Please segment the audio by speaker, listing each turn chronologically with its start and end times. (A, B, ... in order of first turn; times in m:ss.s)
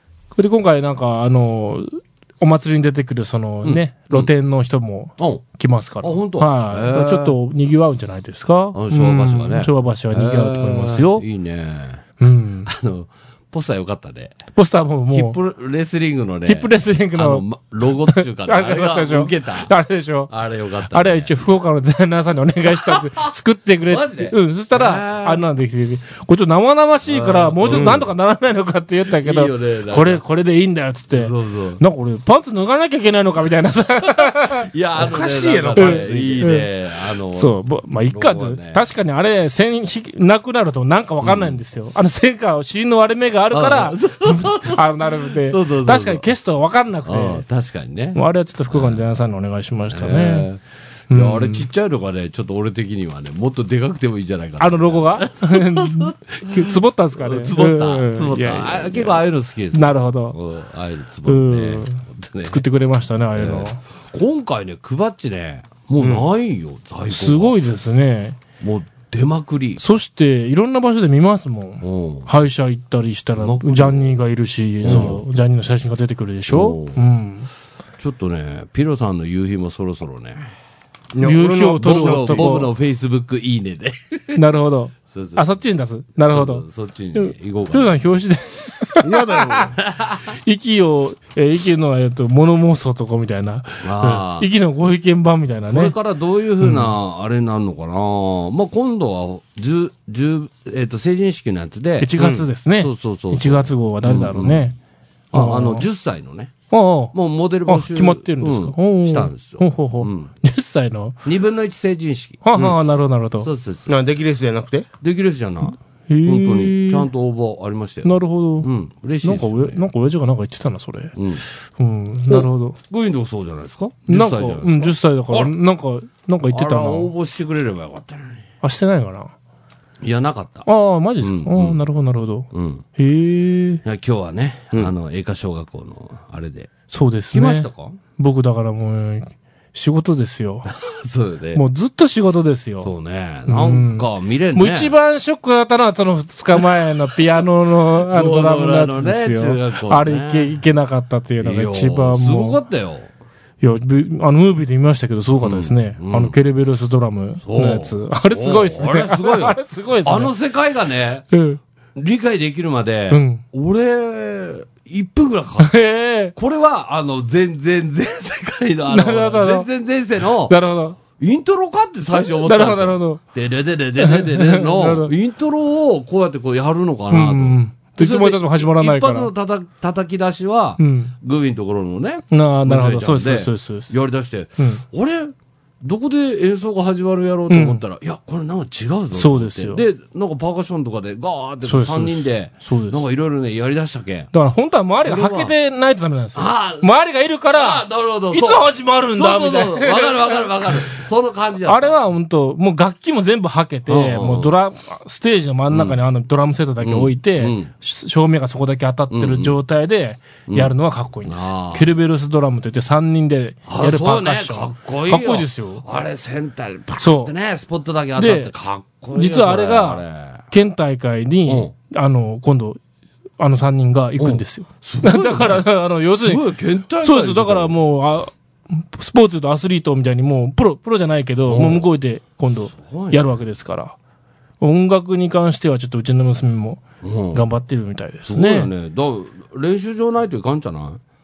0:00.3-0:11.2 A
0:03.6-0:04.3 B
0:05.2-0:05.4 B
0:06.0-0:07.4 B
0:08.7-0:12.0 B
0:12.2-0:12.7 A
0:12.7-0:14.4 B
0:14.5-0:15.4 A
0:15.1-0:19.7 B
0:16.5-0:17.4 A
0:18.1-0:20.3 A
0:20.3-0:21.4 B
0:20.9-0:34.7 A
0:22.7-0:23.3 B
0:23.8-0:25.4 B
0:27.1-0:28.1 B
0:27.6-0:28.0 C
0:29.1-0:30.2 B
0:31.1-0:31.8 B
0:34.6-0:38.9 B
0:35.0-0:36.4 C
0:35.7-0:36.7 A
0:37.3-0:47.4 A
0:41.2-0:41.6 B
0:43.5-0:46.3 B
0:47.0-0:49.0 B
0:48.1-0:50.5 A
0:49.9-0:50.6 B
0:51.1-0:51.7 A
0:51.1-1:02.6 B
0:54.6-0:59.2 A
0:59.7-1:00.4 A
1:01.2-1:03.8 A
1:03.3-1:07.6 B
1:06.0-1:06.2 C
1:07.1-1:08.4 A
1:08.6-1:09.8 B
1:09.8-1:17.5 A
1:11.8-1:12.3 B
1:13.3-1:14.2 B
1:14.8-1:15.2 B
1:16.5-1:17.0 B
1:18.0-1:20.5 B
1:21.1-1:22.6 C
1:21.2-1:22.7 A
1:21.8-1:24.4 B
1:24.3-1:29.7 A
1:25.1-1:25.5 B
1:26.3-1:28.0 B
1:29.0-1:29.7 C
1:29.8-1:30.2 B
1:30.4-1:35.9 A
1:33.8-1:34.5 B
1:35.6-1:42.1 B
1:36.6-1:37.0 A
1:42.0-1:44.7 A
1:42.2-1:42.5 C
1:42.8-1:44.7 B
1:45.3-1:46.5 B
1:45.3-1:45.9 A
1:46.7-1:47.1 A
1:47.1-1:50.3 B
1:47.7-1:51.2 A
1:51.2-1:52.7 B
1:52.4-1:53.5 A
1:53.4-1:53.9 B
1:53.9-1:54.9 C
1:55.0-1:59.8 B
1:56.1-1:57.1 A
1:58.0-1:58.7 A
1:59.2-2:02.8 A
2:01.2-2:01.4 B
2:02.3-2:05.5 B
2:04.1-2:07.1 A
2:06.5-2:08.4 B
2:08.6-2:09.3 A
2:10.0-2:10.7 B
2:10.6-2:13.8 A
2:11.2-2:11.8 B
2:12.5-2:12.8 B
2:13.8-2:16.7 B
2:16.9-2:20.7 A
2:17.3-2:18.0 B
2:20.7-2:21.6 B
2:21.5-2:22.9 A
2:22.8-2:24.9 B
2:23.5-2:32.6 A
2:27.9-2:30.5 B
2:31.4-2:33.1 B
2:33.6-2:40.3 A
2:35.4-2:36.4 B
2:37.4-2:41.3 B
2:41.3-2:41.6 A
2:42.0-3:14.3 B
2:43.1-2:43.4 A
2:45.6-2:46.3 A
2:48.9-2:49.7 A
2:50.5-2:51.0 A
2:52.1-2:53.2 A
2:54.0-2:55.1 A
2:57.1-2:59.3 A
3:00.8-3:01.1 A
3:02.3-3:03.9 A
3:07.5-3:07.8 A
3:09.1-3:09.8 A
3:11.6-3:13.0 A
3:14.3-3:20.8 A
3:15.0-3:15.5 B
3:16.4-3:17.0 B
3:17.5-3:22.0 B
3:21.6-3:35.8 A
3:23.9-3:24.5 B
3:25.7-3:26.0 B
3:26.8-3:27.7 B
3:29.1-3:29.6 B
3:30.5-3:31.9 B
3:33.7-3:40.4 B
3:37.0-3:37.3 A
3:38.2-3:38.5 A
3:39.1-3:42.8 A
3:41.5-3:41.7 B
3:43.4-3:46.4 A
3:44.2-3:47.7 B
3:47.0-3:54.0 A
3:51.5-3:51.8 B
3:52.6-3:53.2 B
3:54.6-3:58.7 A
3:57.0-3:57.4 B
3:58.2-4:01.0 B